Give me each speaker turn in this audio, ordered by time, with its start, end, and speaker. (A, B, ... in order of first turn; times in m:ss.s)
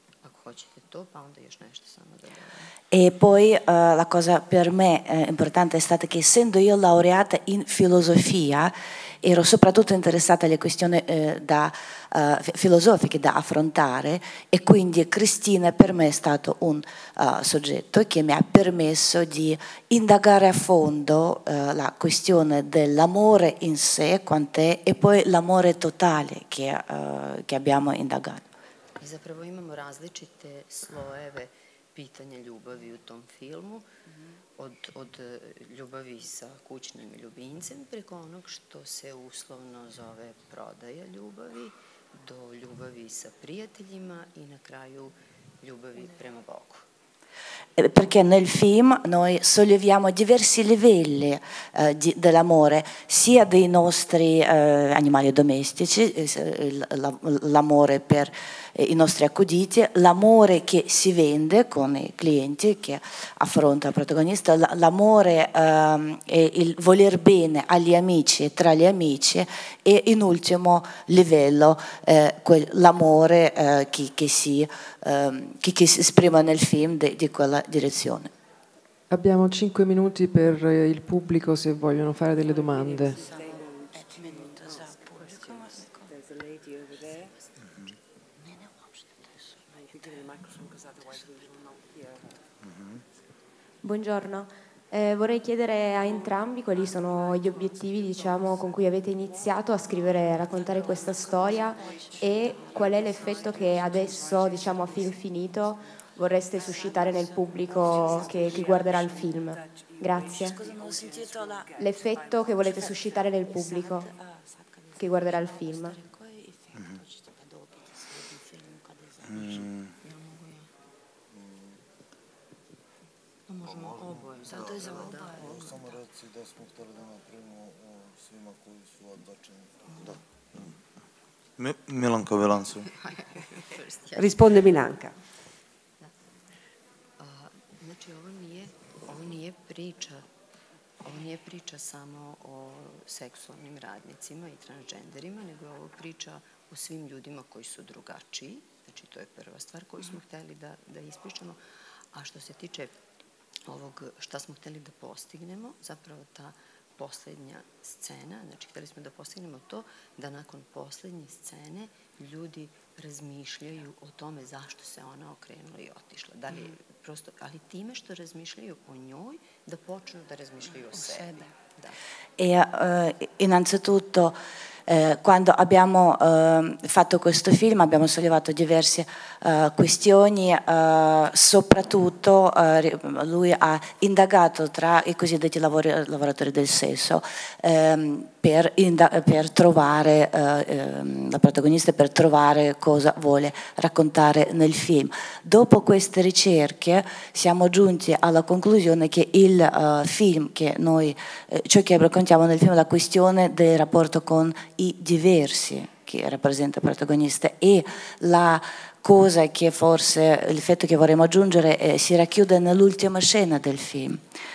0:00.2-0:02.7 A
0:02.9-0:28.4 B
0:29.0-0:33.9 A
0:34.6-0:46.9 A
0:47.8-1:18.3 B
1:19.1-1:23.2 C
1:22.4-1:27.4 D
1:29.7-1:32.3 D
1:32.7-1:33.0 E
1:33.8-1:50.6 F
1:35.9-1:45.1 D
1:46.6-1:53.6 D
1:51.7-1:54.1 F
1:55.0-1:56.0 F
1:59.3-1:59.9 E
2:00.0-2:00.7 A
2:03.5-2:06.0 A
2:04.4-2:10.7 E
2:11.6-2:12.9 E
2:12.9-2:14.7 A
2:14.2-2:15.2 D
2:17.2-2:20.3 A
2:21.0-2:31.6 A
2:32.1-2:32.9 A
2:33.7-2:52.0 A
2:52.4-2:54.4 B
2:54.9-3:34.2 B